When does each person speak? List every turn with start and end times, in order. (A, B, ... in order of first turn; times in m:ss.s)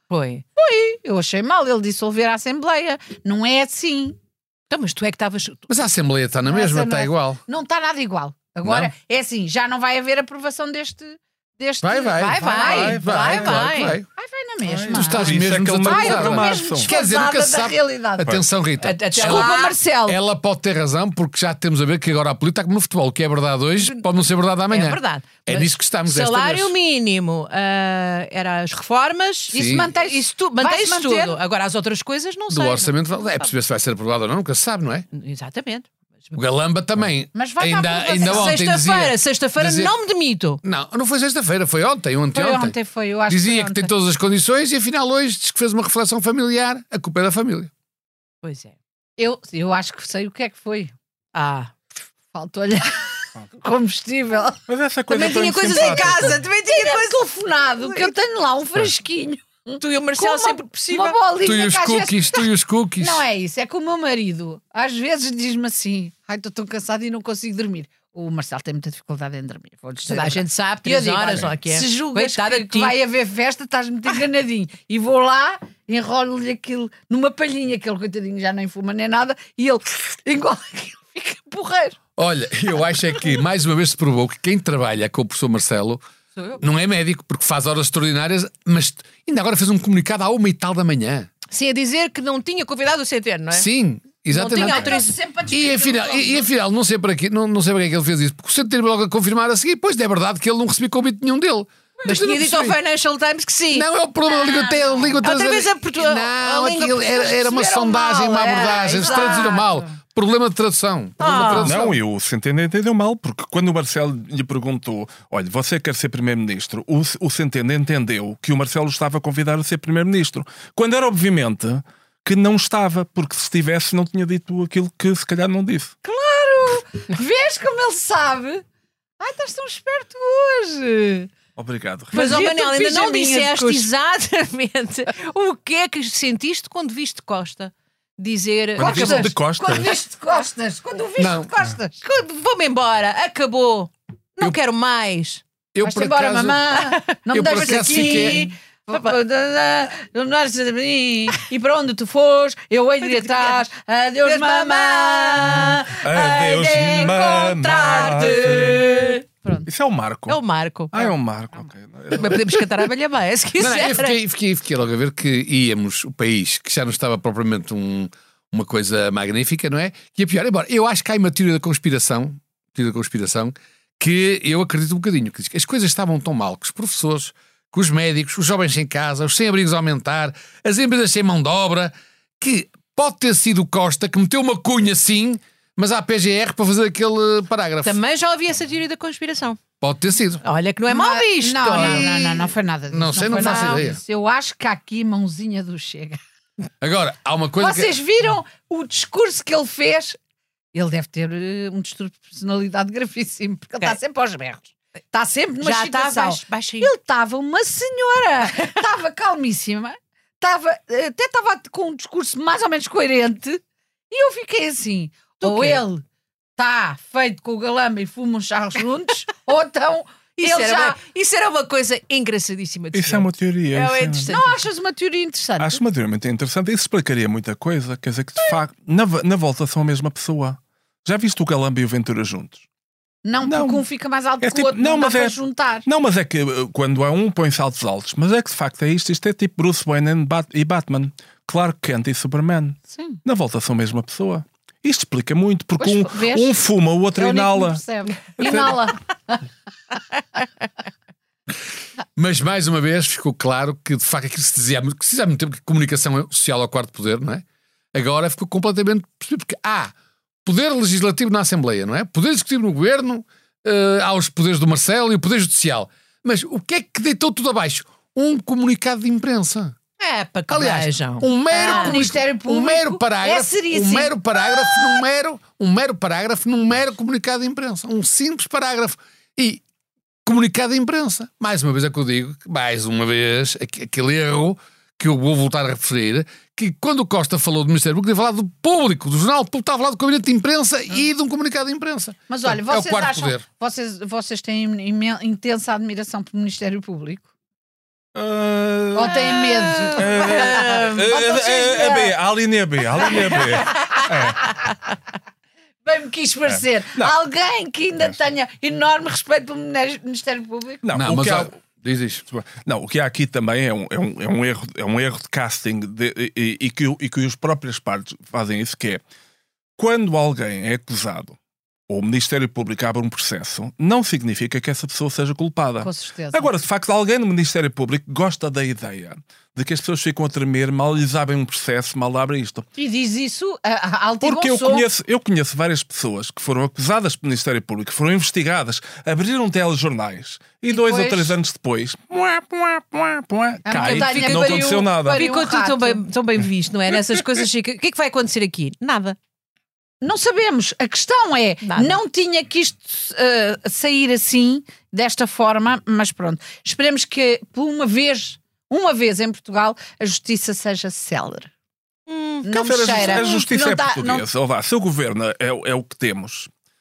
0:00.1-0:00.4 A
0:00.6-0:04.2 B
0:04.7-0:05.6 A
0:05.7-0:07.4 C
0:06.4-0:18.4 B
0:11.8-0:14.0 C
0:12.2-0:14.0 A
0:12.6-0:13.4 D
0:14.6-0:16.9 D
0:14.9-0:26.7 C
0:18.8-0:19.8 A
0:19.1-0:20.2 B
0:23.8-0:24.0 A
0:24.7-0:32.9 A
0:29.5-0:31.4 B
0:29.5-0:29.9 C
0:32.5-0:35.1 C
0:35.1-0:36.4 A
0:36.3-0:39.9 C
0:37.3-0:38.6 B
0:38.2-0:40.6 A
0:40.6-0:42.8 C
0:42.3-0:43.9 B
0:43.3-0:47.7 C
0:48.4-0:48.7 A
0:49.2-0:50.9 B
0:51.3-0:51.7 A
0:52.3-0:54.6 B
0:54.7-0:56.4 D
0:55.1-0:57.2 A
0:55.7-1:02.4 B
0:57.7-0:58.1 A
0:59.8-1:01.2 A
1:01.4-1:03.2 C
1:03.0-1:22.0 B
1:10.1-1:12.9 A
1:22.2-1:26.0 C
1:26.6-1:31.3 C
1:31.5-1:33.7 A
1:33.5-1:34.9 C
1:34.3-1:35.2 A
1:34.5-1:36.4 B
1:35.5-1:42.8 C
1:42.0-1:43.9 A
1:43.7-1:52.0 C
1:44.4-1:45.2 B
1:45.2-1:47.5 A
1:47.3-1:50.0 B
1:48.4-1:49.6 A
1:51.2-1:51.7 A
1:51.5-2:05.9 D
2:06.0-2:08.6 B
2:09.2-2:11.3 B
2:11.6-2:12.2 D
2:12.1-2:13.9 B
2:12.1-2:19.3 A
2:18.8-2:19.9 D
2:18.8-2:22.0 B
2:21.2-2:21.5 C
2:22.0-2:25.4 A
2:25.7-2:26.7 C
2:25.8-2:38.6 B
2:26.8-2:29.1 A
2:27.3-2:28.5 C
2:33.0-2:33.6 A
2:34.2-2:39.2 A
2:36.0-2:39.0 D
2:39.6-2:40.4 D
2:40.3-2:41.1 A
2:40.9-2:42.8 D
2:42.1-2:44.1 A
2:43.6-3:08.0 C
3:07.8-3:09.6 A
3:09.8-3:10.4 C
3:10.4-3:12.1 A
3:10.9-3:16.2 B
3:11.7-3:14.0 C
3:13.3-3:13.8 A
3:16.8-3:18.0 C
3:17.6-3:20.2 B
3:20.7-3:36.0 B
3:25.6-3:26.9 A
3:35.4-3:35.8 A
3:36.6-3:41.0 B
3:40.4-3:44.6 A
3:42.9-3:44.3 D
3:44.3-3:45.8 B
3:45.6-3:52.6 D
3:53.2-3:55.8 B
3:53.4-3:53.8 D
3:54.4-4:07.8 D
4:02.9-4:03.2 B
4:05.8-4:06.6 B
4:07.1-4:09.4 B
4:08.4-4:08.8 D
4:12.2-4:19.9 C
4:20.4-4:29.8 C
4:30.0-4:32.0 A
4:30.5-4:39.6 C
4:31.5-4:34.7 B
4:40.2-4:53.4 C
4:52.3-4:57.2 B
4:58.1-5:04.5 D
4:58.9-5:02.1 B
4:59.7-5:01.1 A
5:03.0-5:04.7 B
5:05.8-5:10.8 B
5:06.5-5:07.1 D
5:10.8-5:11.6 D
5:10.9-5:12.2 C
5:12.3-5:19.0 D
5:19.8-5:21.4 D
5:21.9-5:32.6 D
5:25.8-5:26.5 B
5:32.8-5:34.9 B
5:34.2-5:45.2 D
5:40.7-5:41.3 B
5:43.6-5:46.0 B
5:43.7-5:49.2 A
5:50.0-6:01.5 B
5:51.6-5:52.0 A
6:02.1-6:03.3 A
6:02.4-6:04.2 B
6:02.5-6:06.5 D